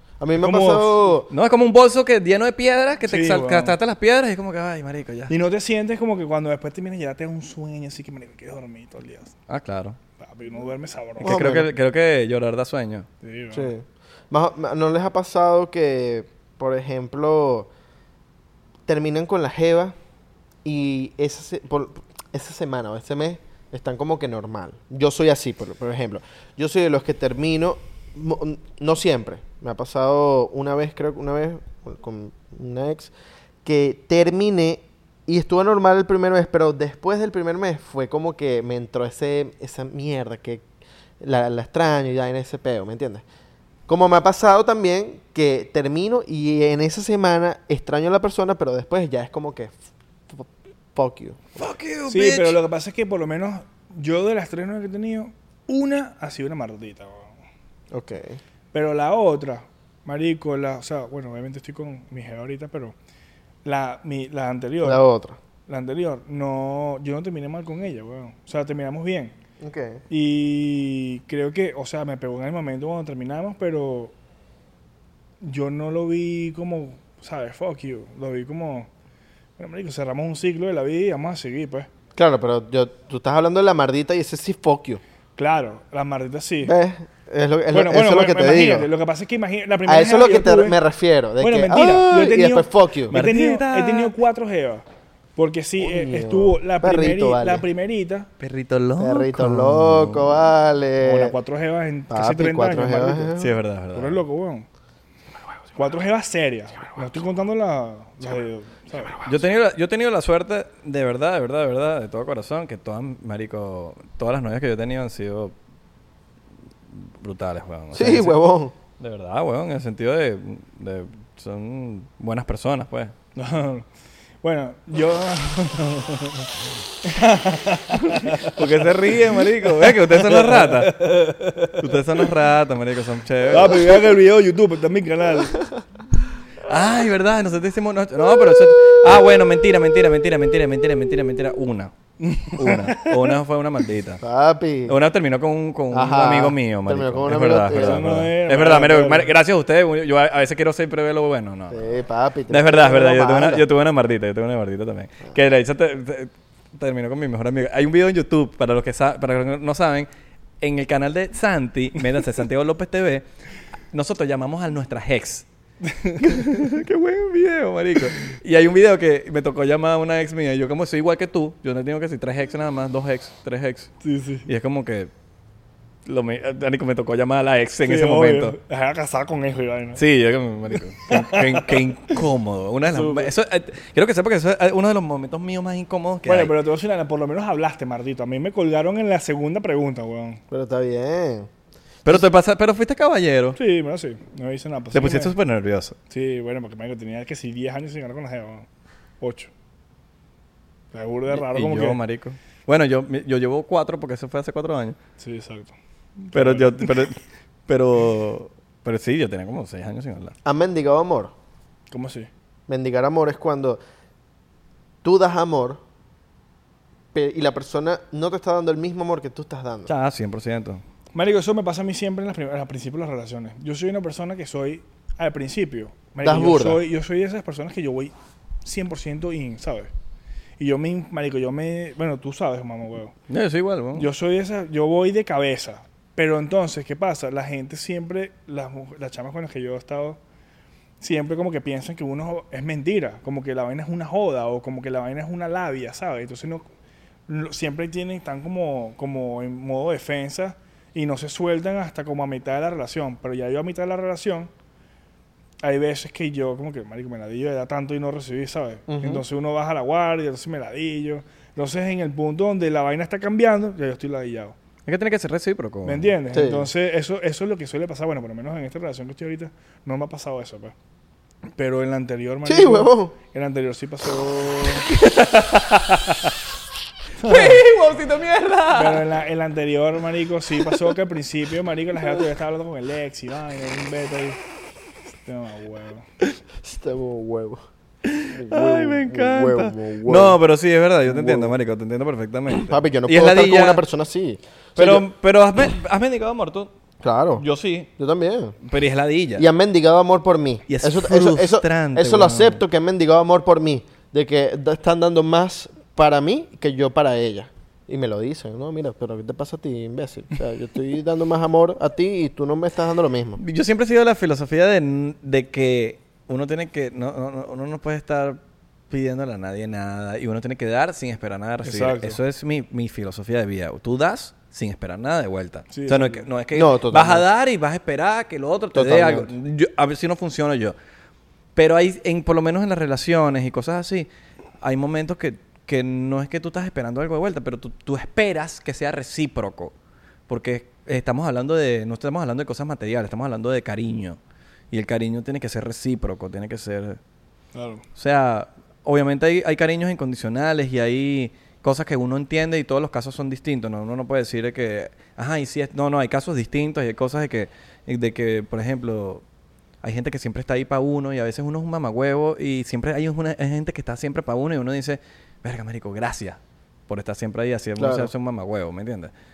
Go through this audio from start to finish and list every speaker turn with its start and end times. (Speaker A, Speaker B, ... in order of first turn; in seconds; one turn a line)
Speaker A: 0.2-1.3
Speaker B: 0.4-1.2
Speaker C: 1.3-5.3
Speaker B: 3.1-3.8
Speaker B: 5.3-9.3
Speaker C: 9.5-10.0
Speaker B: 10.2-11.4
Speaker C: 11.2-13.1
Speaker A: 11.2-11.7
Speaker B: 13.2-13.7
Speaker A: 13.5-17.7
Speaker A: 18.9-19.9
Speaker A: 20.6-33.1
Speaker A: 33.6-40.6
Speaker A: 41.2-43.2
Speaker A: 43.9-49.8
Speaker A: 50.3-51.4
Speaker C: 51.5-52.6
Speaker B: 52.1-57.3
Speaker A: 57.9-58.4
Speaker B: 58.7-62.9
Speaker B: 63.6-65.0
Speaker A: 64.8-65.4
Speaker B: 65.7-69.3
Speaker A: 69.6-70.0
Speaker B: 70.1-74.1
Speaker B: 75.4-78.9
Speaker B: 79.6-81.9
Speaker A: 82.2-85.0
Speaker B: 85.4-86.7
Speaker A: 86.6-88.9
Speaker B: 87.7-90.8
Speaker A: 89.8-93.1
Speaker B: 91.4-94.8
Speaker C: 93.1-94.1
Speaker B: 95.4-98.3
Speaker A: 95.8-97.6
Speaker C: 98.4-100.4
Speaker A: 99.0-101.3
Speaker B: 101.0-103.3
Speaker A: 102.1-103.6
Speaker C: 103.4-104.2
Speaker B: 103.9-104.7
Speaker B: 105.7-109.2
Speaker C: 109.2-115.5
Speaker C: 116.9-118.3
Speaker A: 117.9-118.7
Speaker C: 119.0-123.1
Speaker B: 123.3-123.9
Speaker B: 124.4-132.3
Speaker C: 128.2-131.0
Speaker C: 131.8-134.0
Speaker B: 133.5-135.7
Speaker C: 136.6-141.9
Speaker B: 142.2-143.2
Speaker C: 142.4-144.2
Speaker A: 144.2-145.0
Speaker C: 144.9-151.9
Speaker A: 145.9-148.2
Speaker B: 147.7-149.3
Speaker A: 151.7-153.7
Speaker C: 152.5-160.1
Speaker C: 160.6-163.2
Speaker C: 163.9-165.4
Speaker B: 165.8-166.4
Speaker C: 166.2-173.9
Speaker B: 174.0-174.5
Speaker C: 174.4-175.1
Speaker C: 176.1-178.6
Speaker B: 177.8-180.0
Speaker C: 179.9-186.5
Speaker B: 181.1-182.2
Speaker B: 182.9-183.3
Speaker B: 186.2-190.4
Speaker A: 190.5-191.5
Speaker C: 192.0-193.6
Speaker B: 193.5-195.3
Speaker C: 194.9-195.9
Speaker B: 196.1-198.7
Speaker B: 199.2-199.5
Speaker B: 200.9-202.0
Speaker C: 201.3-205.0
Speaker B: 205.2-206.9
Speaker C: 206.3-210.3
Speaker A: 210.4-211.3
Speaker B: 211.9-212.3
Speaker A: 212.7-213.8
Speaker A: 215.0-215.8
Speaker A: 217.1-219.9
Speaker C: 219.9-220.8
Speaker B: 221.1-228.1
Speaker A: 226.2-226.8
Speaker B: 228.6-229.9
Speaker B: 230.6-233.1
Speaker C: 233.3-234.1
Speaker B: 233.9-240.2
Speaker B: 241.0-246.7
Speaker B: 247.3-254.5
Speaker B: 255.6-264.6
Speaker A: 258.9-259.2
Speaker C: 264.9-266.1
Speaker B: 265.8-270.7
Speaker A: 266.3-266.7
Speaker B: 271.6-274.9
Speaker A: 272.4-273.1
Speaker C: 274.9-276.3
Speaker B: 277.2-277.6
Speaker C: 277.2-279.0
Speaker B: 278.7-284.4
Speaker B: 285.2-286.0
Speaker A: 286.6-287.6
Speaker C: 288.0-293.8
Speaker A: 288.3-290.4
Speaker A: 291.1-291.5
Speaker A: 292.6-295.0
Speaker C: 294.8-296.7
Speaker A: 297.0-297.4
Speaker C: 297.4-297.9
Speaker A: 298.0-298.6
Speaker C: 298.6-299.4
Speaker A: 299.4-313.4
Speaker C: 300.7-302.6
Speaker C: 313.4-330.7
Speaker B: 321.6-322.2
Speaker B: 325.7-326.2
Speaker A: 326.5-327.2
Speaker A: 328.7-329.3
Speaker C: 331.5-334.1
Speaker C: 334.6-339.7
Speaker C: 340.3-344.2
Speaker C: 344.7-347.0
Speaker B: 347.5-347.8
Speaker C: 347.9-359.2
Speaker C: 359.8-369.1
Speaker A: 367.8-368.1